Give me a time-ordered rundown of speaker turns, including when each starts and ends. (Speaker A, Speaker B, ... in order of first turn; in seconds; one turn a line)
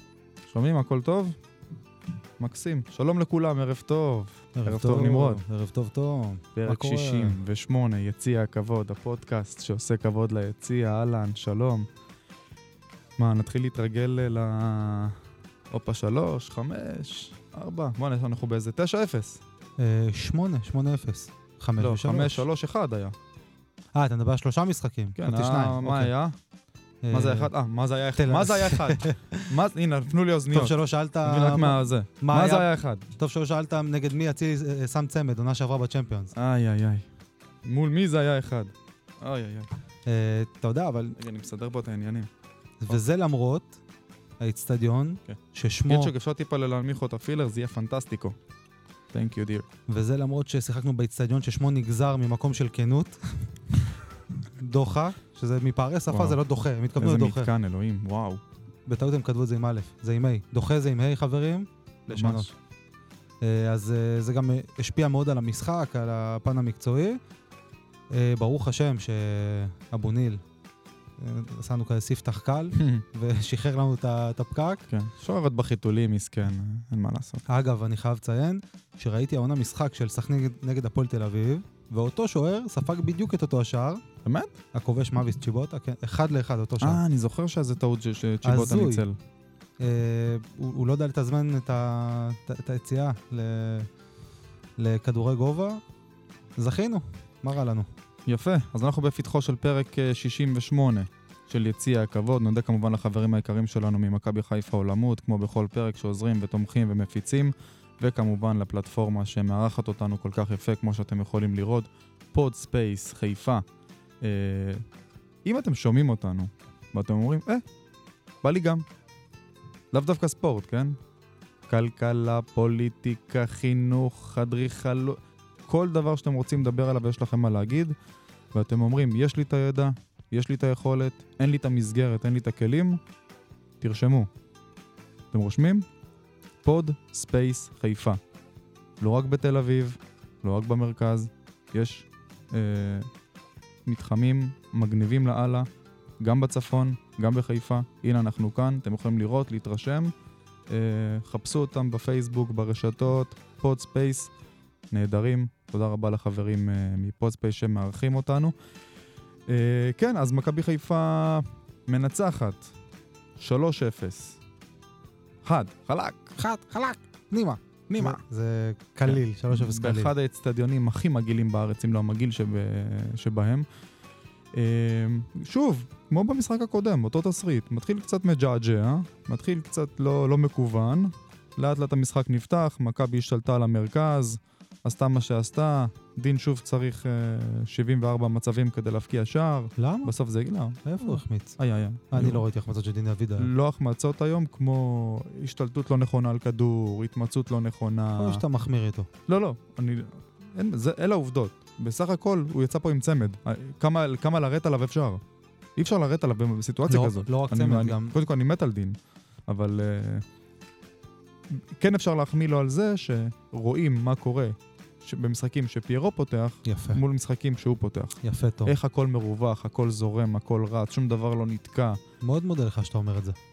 Speaker A: 0.5-1.4
Speaker A: 2.4-5.4
Speaker B: 4.5-7.4
Speaker A: 6.5-11.9
Speaker A: 13.2-15.2
Speaker A: 15.7-19.4
Speaker B: 19.8-22.4
Speaker A: 21.8-23.1
Speaker B: 23.9-26.1
Speaker A: 25.2-26.4
Speaker B: 27.0-27.5
Speaker A: 27.1-33.0
Speaker B: 28.2-29.5
Speaker B: 30.5-36.3
Speaker A: 36.3-37.0
Speaker A: 37.6-39.7
Speaker B: 40.0-41.2
Speaker A: 41.1-42.3
Speaker B: 42.8-43.8
Speaker B: 44.4-46.1
Speaker A: 45.3-48.4
Speaker A: 49.1-49.6
Speaker B: 49.9-53.5
Speaker B: 54.6-57.5
Speaker A: 56.1-56.4
Speaker A: 57.0-58.4
Speaker B: 58.9-62.5
Speaker A: 62.1-62.5
Speaker B: 63.4-67.2
Speaker B: 68.1-70.4
Speaker B: 71.2-74.8
Speaker A: 72.8-73.0
Speaker A: 74.9-77.4
Speaker B: 77.5-84.0
Speaker A: 84.2-84.6
Speaker B: 84.7-87.0
Speaker A: 86.8-89.2
Speaker B: 88.4-89.0
Speaker B: 89.8-93.9
Speaker B: 94.8-95.8
Speaker B: 96.6-97.9
Speaker A: 98.3-113.6
Speaker A: 114.2-114.8
Speaker A: 115.4-117.6
Speaker A: 118.4-118.8
Speaker A: 119.9-121.0
Speaker A: 121.7-128.0
Speaker A: 128.5-133.0
Speaker A: 133.8-134.3
Speaker A: 135.3-135.8
Speaker A: 136.6-138.2
Speaker A: 139.0-143.1
Speaker A: 143.8-145.7
Speaker A: 146.2-150.1
Speaker A: 150.7-154.3
Speaker A: 154.9-158.5
Speaker A: 159.5-162.7
Speaker A: 163.4-164.4
Speaker A: 165.4-166.3
Speaker B: 166.4-170.1
Speaker A: 167.9-168.2
Speaker A: 169.1-173.7
Speaker A: 174.5-192.4
Speaker B: 189.8-190.1
Speaker B: 190.8-191.6
Speaker B: 192.1-193.5
Speaker A: 193.4-198.4
Speaker B: 198.2-199.1
Speaker A: 199.3-205.2
Speaker A: 205.8-208.9
Speaker B: 206.8-208.1
Speaker A: 209.5-210.2
Speaker A: 211.5-222.0
Speaker B: 216.6-217.0
Speaker B: 218.2-218.7
Speaker B: 222.2-223.3